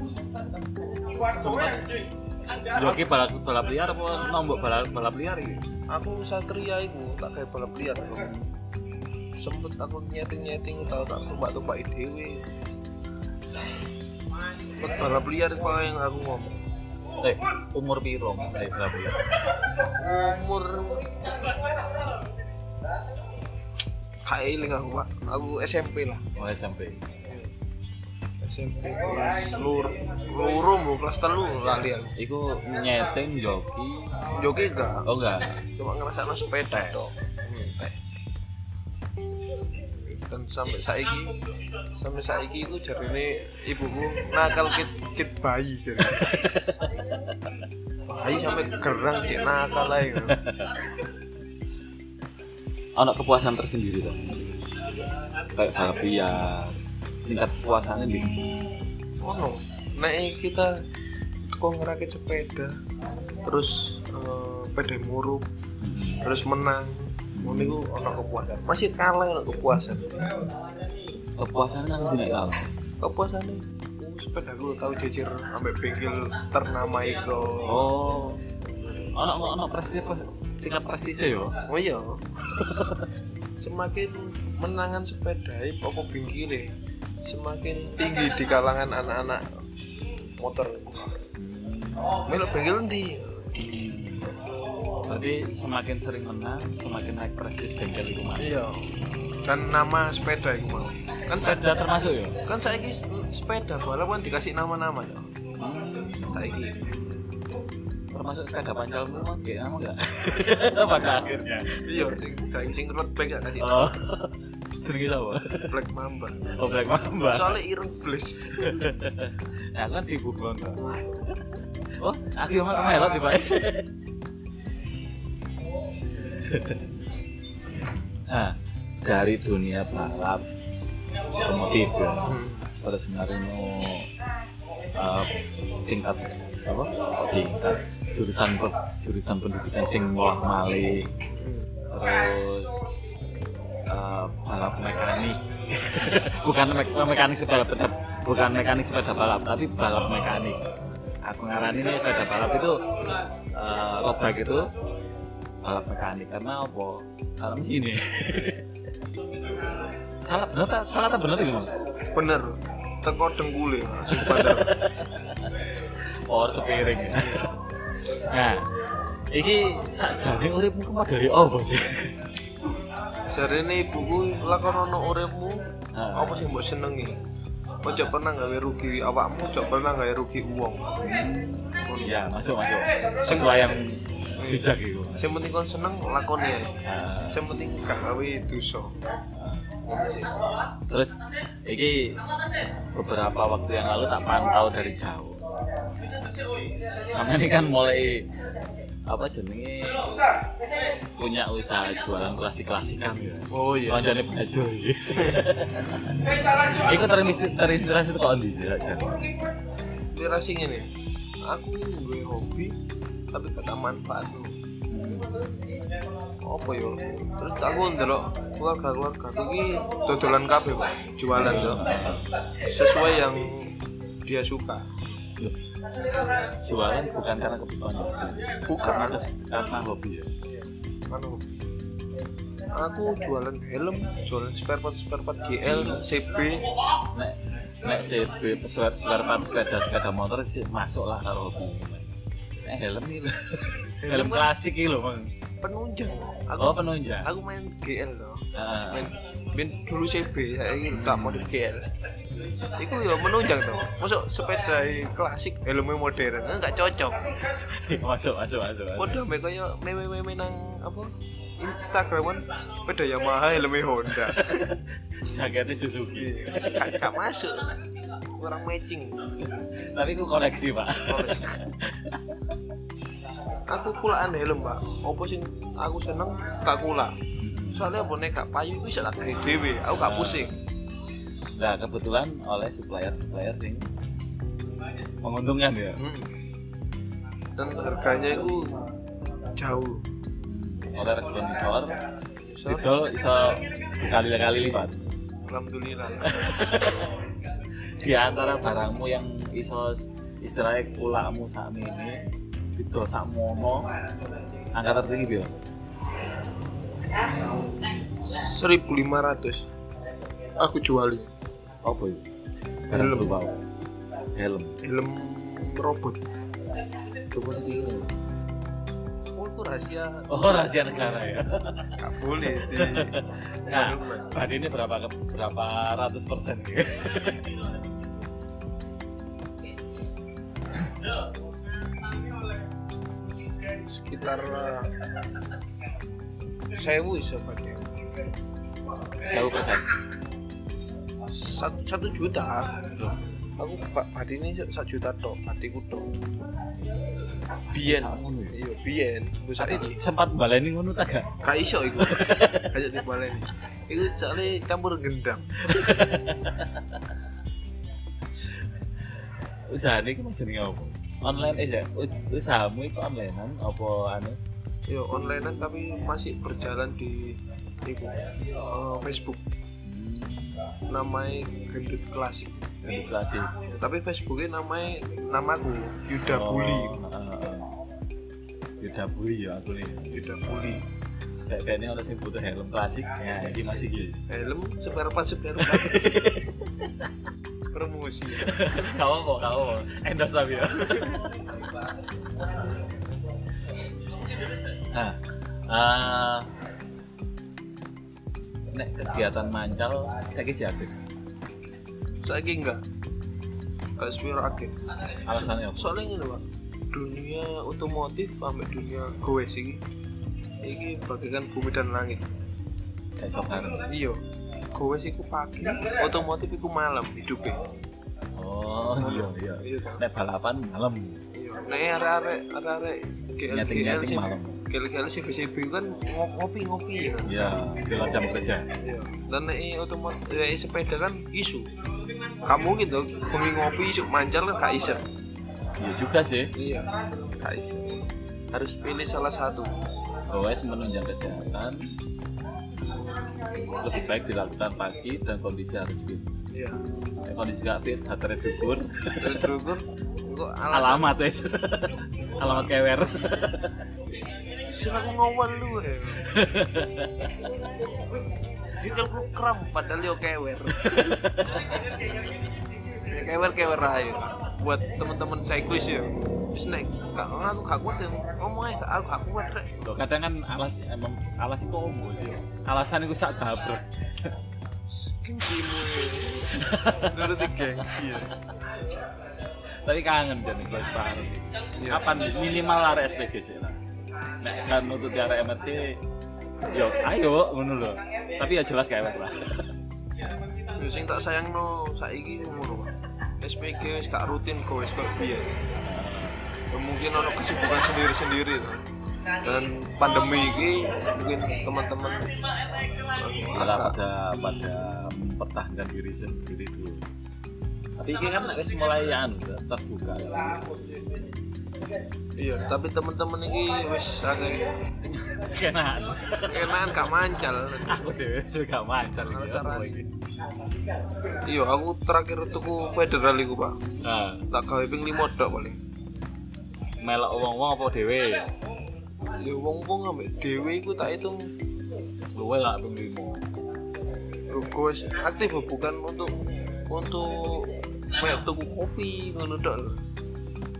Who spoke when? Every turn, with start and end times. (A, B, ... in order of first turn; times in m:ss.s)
0:01.2-0:01.8 A
0:01.4-0:01.8 B
0:02.6-0:05.6 B
0:05.9-0:08.3 A
0:08.2-0:08.5 B
0:09.4-0:12.5 A
0:14.8-0:16.6 A
0:17.2-0:19.2 B
0:19.9-0:21.4 A
0:24.2-0:26.2 A
0:26.4-0:27.0 B
0:28.4-0:32.1 A
0:32.2-0:34.3 B
0:34.3-0:35.0 A
0:35.0-0:35.6 B
0:35.6-0:38.0 A
0:36.7-0:37.1 B
0:39.9-0:41.4 A
0:42.0-0:46.4 A
0:46.0-0:47.4 B
0:48.1-0:50.4 A
0:50.3-0:50.8 B
0:53.0-0:54.6 B
0:55.6-0:58.4 B
0:59.2-1:00.7 A
1:01.4-1:02.8 A
1:03.4-1:05.4 A
1:05.8-1:06.2 B
1:06.2-1:10.3 A
1:07.4-1:07.8 B
1:11.4-1:12.6 B
1:13.0-1:17.9 A
1:17.6-1:18.4 B
1:19.1-1:21.6 B
1:21.7-1:22.2 A
1:22.4-1:23.1 B
1:23.6-1:29.5 A
1:30.4-1:31.2 A
1:31.4-1:32.3 B
1:32.3-1:33.5 A
1:33.6-1:34.3 B
1:35.0-1:38.6 B
1:38.4-1:38.8 A
1:39.4-1:41.7 A
1:41.3-1:42.4 B
1:42.4-1:45.3 A
1:45.6-1:46.4 B
1:46.3-1:46.9 A
1:48.1-1:52.2 B
1:51.8-1:53.9 A
1:53.6-1:55.7 B
1:55.7-1:56.5 A
1:56.5-1:57.6 B
1:57.2-1:58.9 A
1:58.5-2:01.4 B
2:01.9-2:03.9 B
2:06.3-2:06.9 B
2:08.3-2:10.4 B
2:11.4-2:14.1 B
2:12.2-2:12.7 A
2:15.0-2:21.1 B
2:21.3-2:21.7 A
2:21.9-2:22.9 B
2:23.9-2:30.6 B
2:31.2-2:32.9 B
2:33.5-2:34.7 B
2:35.6-2:38.7 B
2:40.2-2:41.8 B
2:42.1-2:44.8 A
2:44.1-2:45.6 B
2:46.1-2:48.7 B
2:47.2-2:47.4 A
2:49.3-2:52.2 B
2:53.3-2:57.2 A
2:55.9-2:56.5 B
2:57.8-3:00.9 A
3:01.0-3:05.3 B
3:01.9-3:02.2 A
3:03.2-3:03.6 A
3:04.4-3:06.8 A
3:06.8-3:07.4 B
3:07.3-3:08.9 A
3:09.4-3:09.6 B
3:09.8-3:10.4 A
3:10.9-3:12.2 B
3:12.9-3:15.4 B
3:17.0-3:18.3 B
3:19.1-3:20.2 B
3:21.2-3:29.3 B
3:23.5-3:24.0 A
3:30.1-3:30.9 A
3:31.4-3:32.8 A
3:33.3-3:34.5 A
3:34.9-3:35.3 B
3:36.4-3:42.0 A
3:41.3-3:42.2 B
3:42.6-3:44.9 A
3:46.6-3:50.3 B
3:48.7-3:49.2 A
3:50.4-3:51.5 A
3:52.7-3:56.7 A
3:55.7-3:56.0 B
3:57.1-4:05.3 B
4:04.0-4:04.5 A
4:05.6-4:11.9 A
4:06.6-4:07.3 B
4:08.5-4:09.1 B
4:10.9-4:11.6 B
4:12.7-4:17.3 A
4:17.6-4:19.2 B
4:19.0-4:24.8 A
4:24.1-4:27.1 B
4:26.2-4:29.3 A
4:29.5-4:32.4 B
4:31.1-4:31.6 A
4:33.7-4:37.2 A
4:37.4-4:37.9 B
4:37.7-4:40.6 A
4:40.0-4:40.5 B
4:41.6-4:43.9 B
4:45.2-4:46.0 B
4:46.0-4:46.3 A
4:47.6-4:48.9 A
4:49.6-4:50.0 A
4:50.4-4:52.0 B
4:52.4-4:52.9 A
4:52.7-4:55.0 B
4:55.5-4:56.8 A
4:56.2-4:57.1 B
4:58.0-5:03.9 B
5:04.7-5:05.6 B
5:08.2-5:09.7 A
5:10.6-5:11.3 A
5:11.8-5:12.2 B
5:12.9-5:13.6 B
5:12.9-5:13.4 A
5:14.4-5:14.8 B
5:14.8-5:16.2 A
5:17.3-5:18.1 B
5:19.4-5:20.3 A
5:20.3-5:27.5 B
5:22.0-5:23.2 A
5:23.7-5:24.4 A
5:33.8-5:34.9 A
5:36.7-5:37.9 A
5:39.2-5:39.9 B
5:41.3-5:42.8 A
5:43.6-5:46.1 A
5:47.7-5:50.0 A
5:47.8-5:48.6 B
5:49.6-5:51.4 B
5:51.4-5:55.9 A
5:52.0-5:52.8 B
5:55.6-5:57.0 B
5:59.7-6:04.4 B
6:04.9-6:09.4 A
6:09.8-6:10.5 B
6:10.9-6:12.7 A
6:12.8-6:13.6 B
6:13.7-6:17.0 A
6:16.2-6:17.7 B
6:18.8-6:20.1 B
6:20.1-6:20.8 A
6:21.5-6:24.2 B
6:24.3-6:26.4 A
6:25.6-6:27.1 B
6:27.7-6:28.8 A
6:28.4-6:31.4 B
6:34.9-6:36.5 B
6:38.7-6:40.9 B
6:42.2-6:42.8 A
6:44.0-6:44.8 A
6:45.3-6:46.0 B
6:45.3-6:49.8 A
6:50.6-6:52.2 A
6:53.2-6:53.9 B
6:53.9-6:54.2 A
6:54.7-6:57.6 A
6:58.4-7:01.2 B
6:58.9-7:00.0 A
7:01.3-7:07.6 A
7:03.5-7:04.6 B
7:07.3-7:08.7 B
7:08.8-7:11.7 A
7:12.4-7:15.0 A
7:15.8-7:16.5 B
7:16.6-7:16.9 A
7:17.4-7:19.7 A
7:20.3-7:21.8 B
7:23.7-7:26.3 B
7:26.5-7:26.8 A
7:27.2-7:29.6 B
7:29.2-7:31.2 A
7:30.7-7:34.0 B
7:32.4-7:32.7 A
7:34.7-7:36.3 A
7:36.1-7:37.5 B
7:38.7-7:41.2 A
7:40.7-7:42.0 B
7:43.1-7:49.8 A
7:49.8-7:54.4 B
7:54.9-7:58.3 A
7:56.5-7:58.3 B
7:59.8-8:03.8 B
8:01.8-8:02.2 A
8:04.4-8:06.0 B
8:06.7-8:09.7 B
8:10.8-8:15.5 A
8:15.8-8:16.5 B
8:16.7-8:18.8 A
8:19.4-8:22.3 A
8:23.1-8:24.0 A
8:23.6-8:27.0 B
8:28.0-8:31.0 B
8:32.4-8:34.7 A
8:35.0-8:37.2 B
8:36.4-8:38.1 A
8:37.8-8:40.1 B
8:39.2-8:40.0 A
8:41.4-8:43.8 A
8:44.0-8:44.5 B
8:44.5-8:45.8 A
8:47.0-8:48.5 B
8:49.4-8:51.4 A
8:52.4-8:53.4 B
8:54.5-8:56.3 A
8:56.9-9:00.0 A